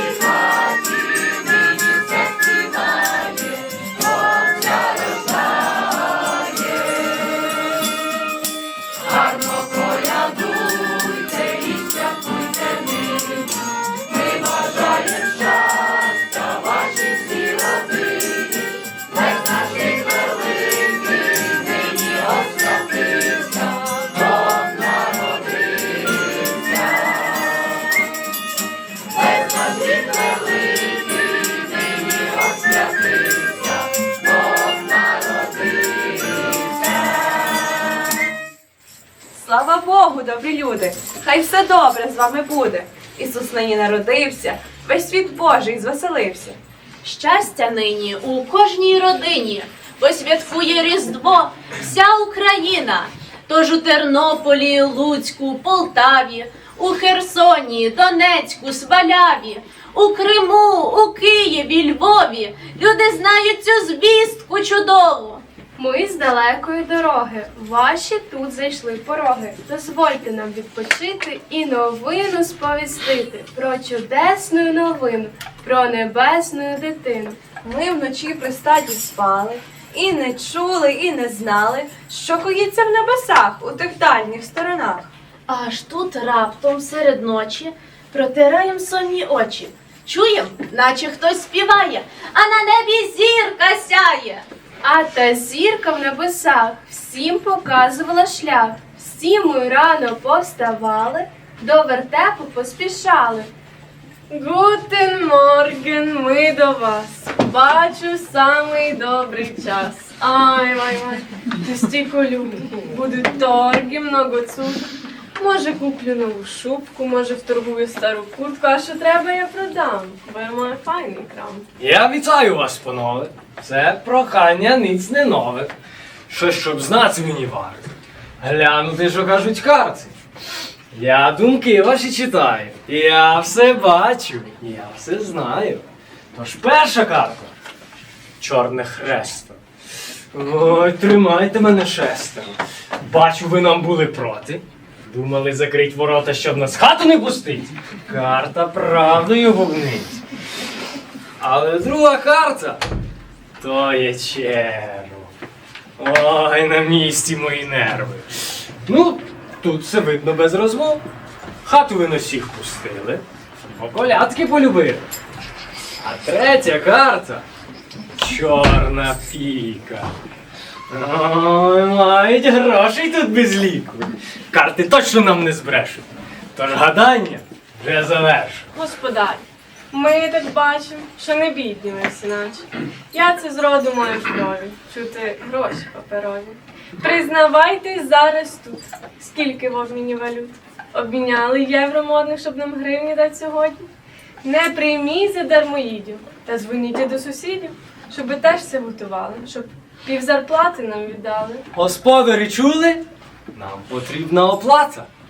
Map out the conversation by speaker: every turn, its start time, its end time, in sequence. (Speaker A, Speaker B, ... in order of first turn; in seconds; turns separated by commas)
Speaker A: 39.3-46.6, Speaker B: 47.0-65.4, Speaker C: 65.8-77.5, Speaker A: 77.6-85.1, Speaker B: 85.5-94.4, Speaker C: 94.8-103.5, Speaker C: 104.3-121.6, Speaker D: 121.8-125.7, Speaker D: 126.3-127.8, Speaker D: 128.4-130.1, Speaker D: 130.9-137.5, Speaker D: 138.4-139.6, Speaker D: 140.3-150.2, Speaker D: 151.4-152.8, Speaker D: 153.6-155.3, Speaker D: 156.0-158.3, Speaker D: 158.8-161.0, Speaker D: 161.6-165.1, Speaker D: 166.0-167.4, Speaker D: 168.2-170.1, Speaker D: 170.9-176.0, Speaker D: 176.5-178.7, Speaker C: 178.7-193.9, Speaker C: 194.4-201.6, Speaker D: 201.7-203.0, Speaker D: 203.5-205.1